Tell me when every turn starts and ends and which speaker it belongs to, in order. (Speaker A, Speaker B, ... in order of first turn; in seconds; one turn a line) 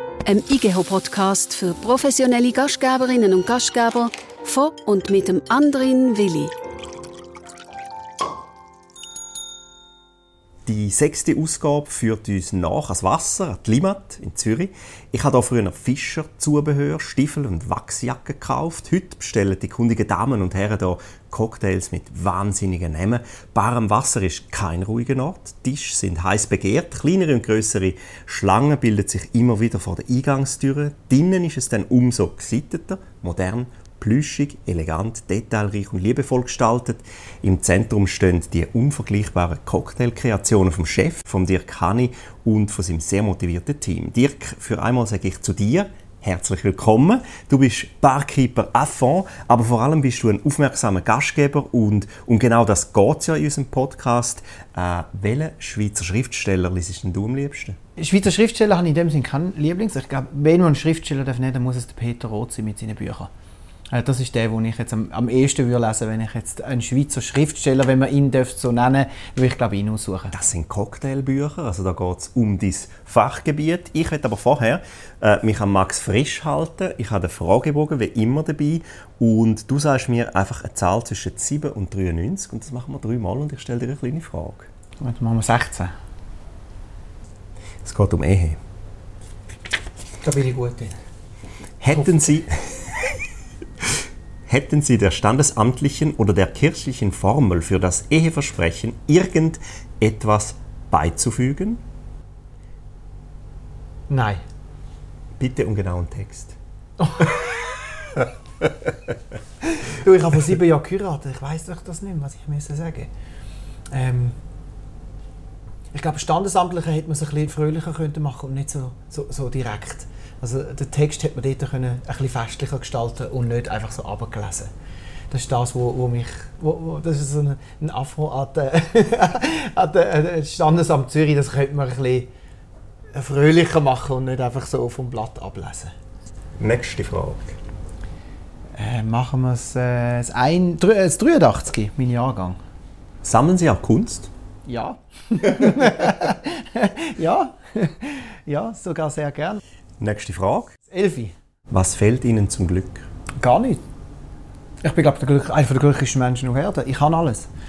Speaker A: 0.2-6.5
Speaker B: 10.7-57.8
Speaker C: 58.0-63.3
Speaker C: 63.9-70.3
Speaker B: 70.3-84.7
Speaker C: 85.0-85.9
Speaker B: 87.8-88.6
Speaker C: 90.2-90.9
Speaker B: 91.8-92.5
Speaker B: 94.5-101.8
Speaker C: 104.1-104.4
Speaker B: 105.4-106.6
Speaker C: 107.0-107.5
Speaker B: 108.2-108.7
Speaker C: 109.6-113.1
Speaker C: 113.9-114.3
Speaker C: 115.9-124.7
Speaker C: 125.3-132.3
Speaker C: 133.1-135.9
Speaker B: 136.6-137.6
Speaker C: 138.8-142.6
Speaker B: 143.2-144.3
Speaker C: 144.7-149.6
Speaker B: 145.6-146.1
Speaker B: 150.0-150.8
Speaker C: 150.9-151.3
Speaker B: 151.7-153.1
Speaker C: 153.4-153.8
Speaker C: 154.8-157.5